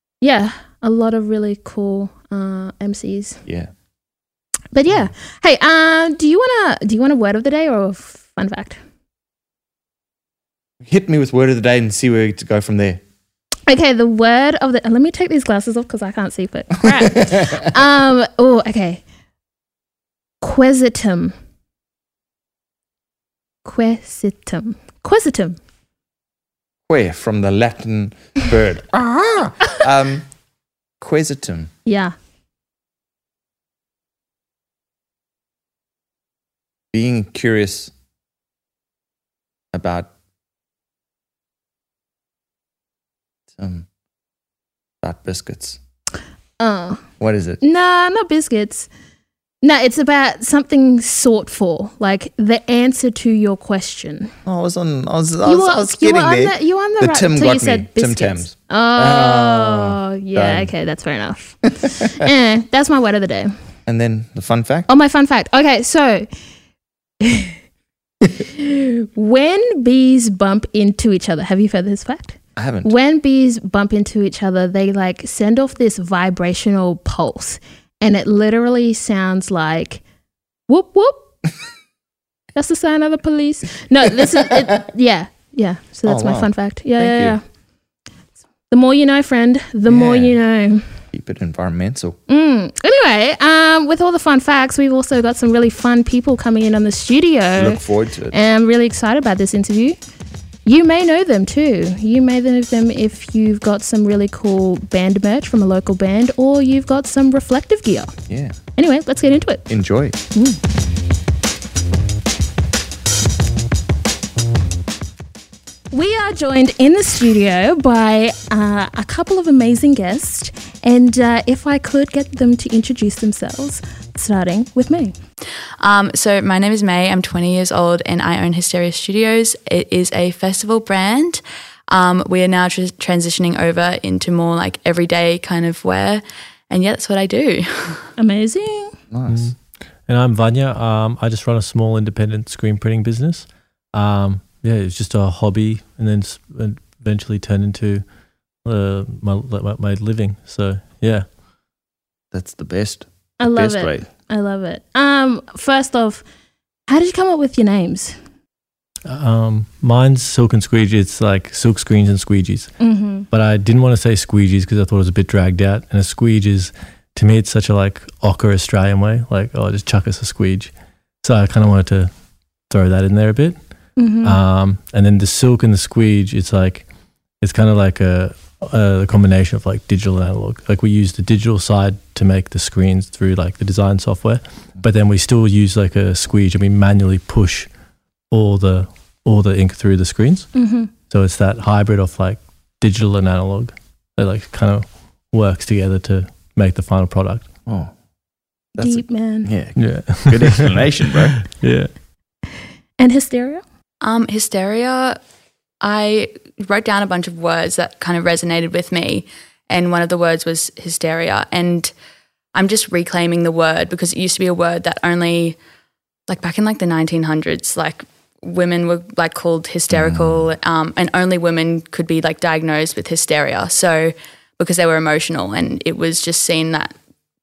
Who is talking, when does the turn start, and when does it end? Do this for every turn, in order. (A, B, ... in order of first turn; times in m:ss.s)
0:00.2-0:03.4 A
0:04.7-0:08.8 A
0:10.8-0:13.0 B
0:13.7-0:19.0 A
0:16.9-0:17.6 B
0:20.4-0:21.3 A
0:23.6-0:25.6 A
0:26.9-0:30.2 B
0:31.0-0:31.7 B
0:31.9-0:32.2 A
0:36.9-0:37.9 B
0:39.7-0:40.1 B
0:43.6-0:43.9 B
0:45.0-0:45.8 B
0:46.6-0:47.0 A
0:47.2-0:47.6 B
0:47.6-0:48.9 A
0:49.6-0:54.3 A
0:54.5-1:00.7 B
0:55.4-1:03.5 A
1:01.8-1:02.3 B
1:03.9-1:04.9 B
1:04.9-1:06.3 A
1:07.2-1:07.6 A
1:08.4-1:20.0 A
1:12.6-1:12.9 B
1:20.7-1:21.2 A
1:22.6-1:27.4 A
1:26.1-1:27.4 B
1:28.7-1:30.8 A
1:29.9-1:30.4 B
1:31.1-1:32.2 B
1:32.3-1:40.0 A
1:37.6-1:38.4 B
1:40.6-1:48.1 A
1:48.3-1:48.6 B
1:48.8-1:49.7 A
1:49.7-1:50.2 B
1:50.3-1:50.6 A
1:55.9-2:05.1 A
2:05.8-2:18.1 C
2:18.2-2:19.0 A
2:19.1-2:19.5 B
2:20.1-2:28.0 D
2:28.6-2:31.3 D
2:32.3-2:34.1 B
2:33.4-2:36.2 A
2:36.9-2:38.2 A
2:39.1-2:42.7 D
2:42.8-2:43.3 A
2:43.3-2:50.7 D
2:51.2-2:52.1 D
2:52.7-2:53.6 D
2:54.0-2:54.4 A
2:54.2-2:56.9 D
2:57.4-3:07.7 D
3:08.3-3:10.5 D
3:10.6-3:10.9 A
3:11.1-3:17.5 D
3:17.7-3:17.9 B
3:18.8-3:21.4 B
3:18.8-3:19.5 A
3:19.8-3:21.9 D
3:23.0-3:23.6 A
3:24.0-3:25.2 C
3:25.8-3:31.9 C
3:32.5-3:35.6 C
3:36.3-3:46.9 C
3:39.9-3:40.5 B